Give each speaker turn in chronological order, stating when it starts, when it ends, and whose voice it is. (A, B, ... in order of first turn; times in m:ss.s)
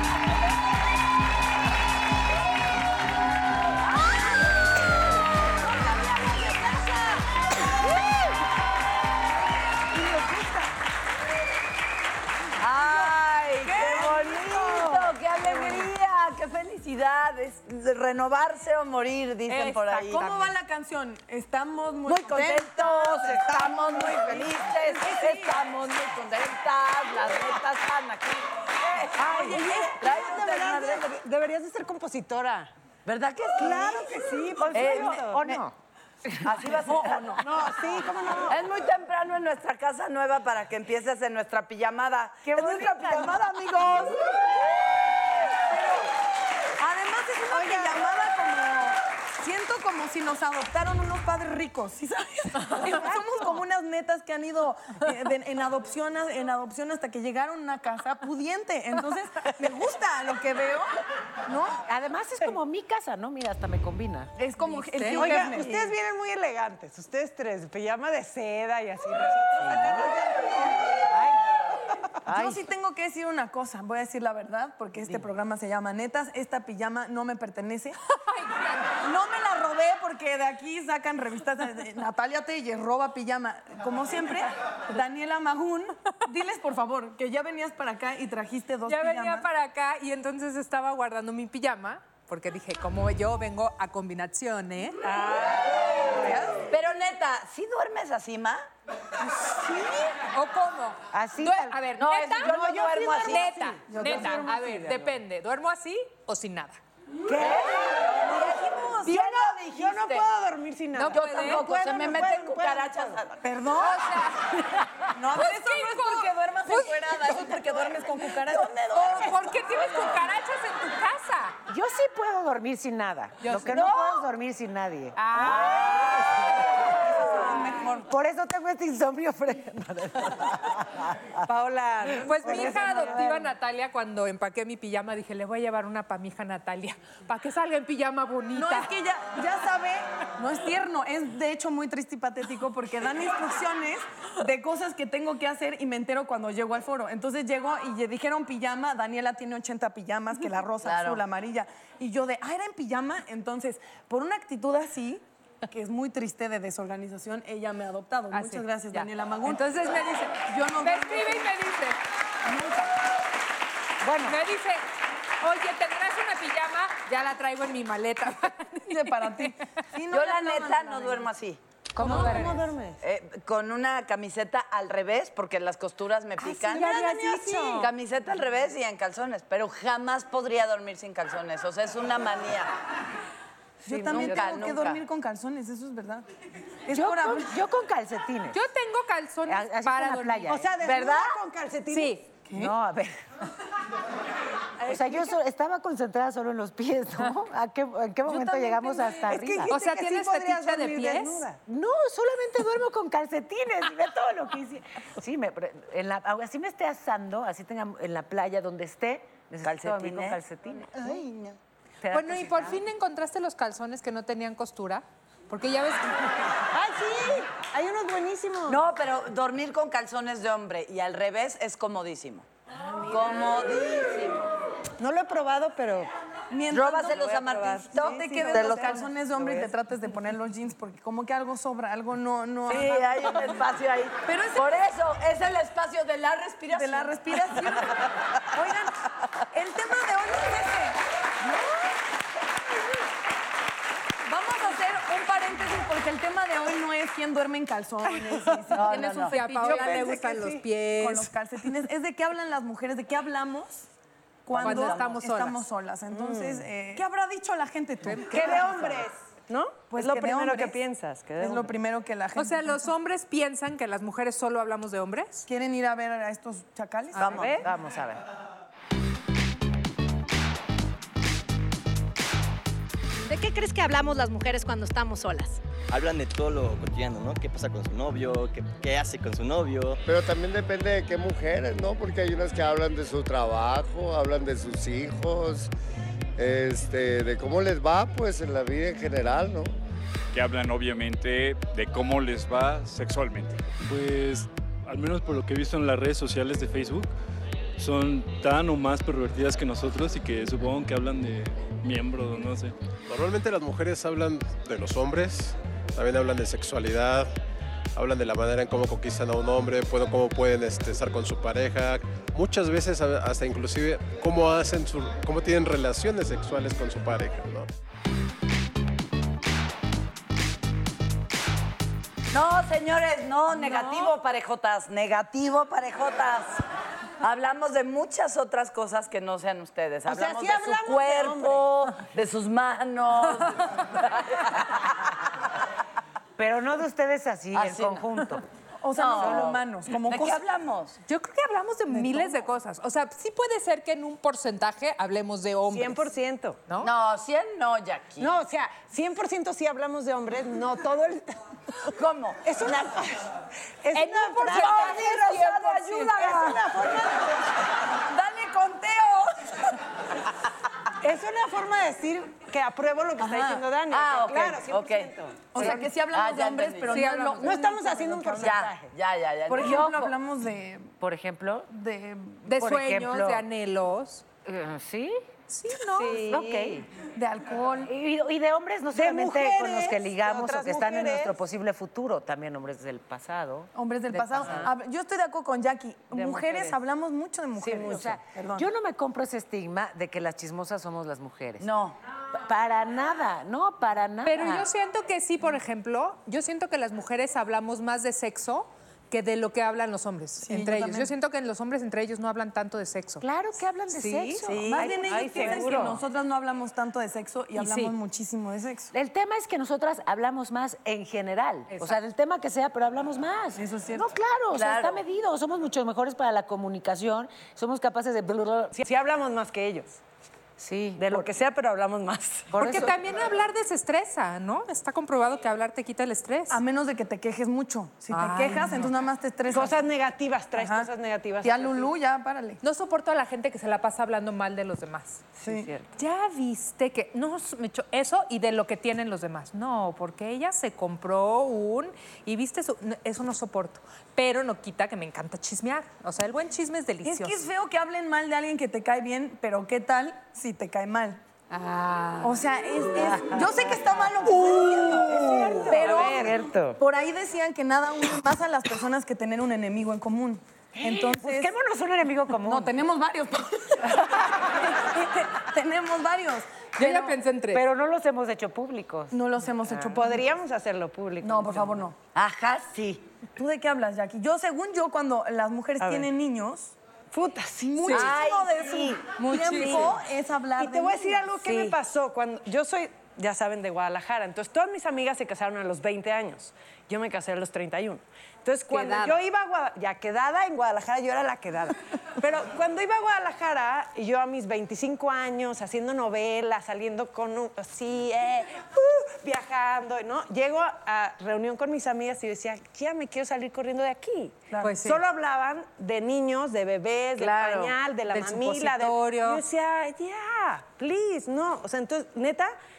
0:03.8-0:04.6 A
0:05.5-0:07.2 A
0:12.6-0:20.4 A
0:13.6-0:15.8 B
0:13.8-0:14.4 C
0:19.5-0:20.0 B
0:19.6-0:25.5 C
0:22.1-0:31.1 A
0:23.4-0:25.2 B
0:29.1-0:32.7 B
0:29.2-0:30.5 C
0:33.0-0:35.3 A
0:33.6-0:35.6 B
0:34.6-0:35.7 D
0:36.4-0:37.5 A
0:36.8-0:37.4 C
0:37.4-0:38.7 B
0:38.4-0:43.5 A
0:42.5-0:43.2 D
0:42.5-0:42.8 B
0:42.7-0:44.2 C
0:45.7-0:46.1 C
0:46.8-1:00.9 C
0:47.5-0:47.9 B
1:01.5-1:01.8 C
1:01.8-1:04.3 D
1:04.4-1:05.9 C
1:04.9-1:05.2 E
1:05.1-1:11.4 B
1:12.2-1:18.0 C
1:12.3-1:12.6 D
1:18.3-1:18.7 E
1:19.0-1:29.5 C
1:28.8-1:35.0 E
1:35.1-1:35.6 B
1:35.2-1:38.6 A
1:39.4-1:40.0 B
1:40.3-1:46.8 E
1:41.1-1:41.8 D
1:41.9-1:43.8 A
1:42.4-1:45.1 B
1:43.9-1:44.4 C
1:47.3-1:48.1 B
1:47.8-1:49.1 A
1:48.2-1:49.6 C
1:49.0-1:53.2 B
1:49.1-1:49.4 E
1:50.9-1:51.6 E
1:51.1-1:53.4 A
1:53.4-1:54.2 C
1:53.8-1:54.6 E
1:55.1-1:58.9 C
1:55.3-1:57.2 E
1:58.5-1:59.3 A
1:58.9-2:01.6 E
2:01.7-2:05.9 D
2:03.4-2:03.9 E
2:03.7-2:04.2 A
2:05.2-2:06.2 E
2:06.9-2:08.0 A
2:08.0-2:11.3 D
2:11.4-2:13.5 B
2:12.2-2:18.9 E
2:12.7-2:13.0 D
2:18.5-2:39.7 C
2:30.8-2:31.2 A
2:38.3-2:42.0 E
2:40.4-2:41.5 C
2:42.4-2:42.9 C
2:44.0-2:44.4 D
2:44.2-2:44.8 E
2:45.4-2:49.1 E
2:48.9-2:51.3 C
2:50.1-2:51.6 A
2:51.9-2:52.7 D
2:52.0-2:52.9 B
2:52.0-2:52.4 E
2:53.0-2:57.0 A
2:56.4-2:57.9 B
2:57.2-2:57.7 C
2:57.7-3:02.7 A
3:03.8-3:06.3 C
3:03.8-3:04.6 B
3:04.1-3:05.0 A
3:06.8-3:07.6 C
3:06.9-3:08.6 D
3:08.5-3:10.6 E
3:09.5-3:10.7 D
3:10.5-3:12.3 B
3:10.8-3:11.4 A
3:11.9-3:12.2 E
3:12.5-3:12.7 C
3:12.5-3:13.2 D
3:14.8-3:19.7 D
3:14.9-3:15.2 B
3:18.3-3:18.9 C
3:18.9-3:21.6 B
3:19.6-3:21.4 E
3:21.6-3:31.1 D
3:29.6-3:30.4 A
3:31.0-3:31.6 A
3:32.0-3:32.8 D
3:32.1-3:36.1 E
3:36.7-3:38.8 B
3:38.7-3:42.5 A
3:43.0-3:44.5 A
3:43.1-3:43.6 B
3:45.0-3:46.1 B
3:46.5-3:53.6 C
3:46.7-3:49.0 A
3:47.1-3:49.7 B
3:52.7-3:57.9 A
3:54.2-3:54.8 C
3:56.7-3:57.9 C
3:58.6-3:58.9 C
3:59.5-4:01.0 C
4:04.2-4:10.2 C
4:08.7-4:09.4 A
4:09.3-4:11.3 E
4:09.5-4:10.7 B
4:10.9-4:13.8 C
4:14.4-4:19.0 C
4:14.5-4:15.6 E
4:14.6-4:15.2 A
4:16.1-4:16.6 B
4:18.0-4:18.9 E
4:18.3-4:21.7 B
4:19.9-4:20.8 C
4:21.4-4:22.8 C
4:22.4-4:25.5 E
4:25.5-4:27.5 C
4:27.2-4:27.6 A
4:27.2-4:27.6 B
4:27.6-4:28.2 D
4:33.2-4:35.6 F
4:35.9-4:40.0 G
4:40.0-4:45.7 H
4:46.4-4:49.8 H
4:50.4-4:51.3 I
4:51.9-4:53.3 I
4:53.8-4:57.1 J
4:57.8-5:02.7 J
5:03.1-5:07.3 K
5:08.0-5:17.7 K
5:22.3-5:26.6 A
5:23.7-5:24.1 B
5:27.2-5:34.0 A
5:30.0-5:31.7 B
5:36.4-5:38.4 D
5:37.5-5:38.4 A
5:38.8-5:40.4 C
5:38.9-5:41.0 A
5:39.2-5:39.5 D
5:41.1-5:46.1 E
5:41.9-5:42.4 C
5:45.7-5:46.6 B
5:46.8-5:48.4 A
5:48.2-5:51.4 B
5:51.9-5:53.1 A
5:52.4-5:53.2 B
5:53.8-5:57.5 B
5:53.9-5:55.7 E
5:54.5-5:56.4 A
5:54.7-5:56.6 C
5:58.0-5:59.3 C
6:01.0-6:05.4 B
6:03.2-6:03.6 C
6:03.8-6:07.1 A
6:05.5-6:08.4 C
6:06.9-6:07.6 E
6:07.4-6:08.9 B
6:08.4-6:10.1 A
6:09.5-6:10.9 C
6:09.6-6:10.1 D
6:11.0-6:11.7 D
6:11.7-6:12.4 C
6:12.4-6:14.2 E
6:12.5-6:13.4 D
6:14.4-6:15.2 D
6:15.5-6:16.4 E
6:15.9-6:16.9 D
6:17.1-6:17.9 C
6:17.8-6:24.7 D
6:18.9-6:21.3 B
6:23.7-6:28.7 C
6:26.1-6:26.7 B
6:27.5-6:31.7 D
6:31.6-6:32.0 A
6:32.3-6:34.7 D
6:34.2-6:43.2 E
6:40.4-6:41.1 C
6:43.2-6:46.0 D
6:43.9-6:44.5 E
6:44.4-6:44.9 A
6:44.5-6:48.9 C
6:44.9-6:46.0 B
6:47.6-6:47.9 E
6:48.9-6:58.8 D
6:51.7-6:52.0 E
6:53.6-6:54.1 C
6:54.5-6:55.0 A
6:58.7-7:00.0 B
7:00.6-7:01.3 D
7:01.0-7:02.5 B
7:02.5-7:03.0 D
7:02.6-7:06.6 E
7:06.5-7:09.8 C
7:08.1-7:08.9 E
7:09.5-7:11.9 B
7:10.5-7:10.9 C
7:11.4-7:12.6 C
7:12.6-7:15.2 E
7:15.4-7:15.9 B
7:15.4-7:15.7 C
7:16.0-7:27.4 E
7:27.0-7:31.2 C
7:31.5-7:32.4 E
7:32.2-7:41.5 C
7:33.0-7:33.7 D
7:34.8-7:36.4 B
7:35.0-7:36.8 D
7:40.8-7:42.7 D
7:42.4-7:46.7 C
7:46.8-7:47.6 E
7:46.8-7:49.9 D
7:49.1-7:50.2 C
7:49.9-7:51.9 B
7:51.2-7:51.9 C
7:52.1-7:53.0 A
7:53.4-7:56.7 C
7:55.8-7:56.1 B
7:57.1-7:58.1 B
7:57.6-8:01.7 C
7:57.8-7:58.1 E
7:57.9-7:59.1 A
7:59.2-7:59.9 E
8:00.6-8:32.5 B
8:08.7-8:09.2 E
8:24.5-8:24.8 C
8:24.6-8:25.0 E
8:27.2-8:27.8 A
8:28.1-8:29.4 E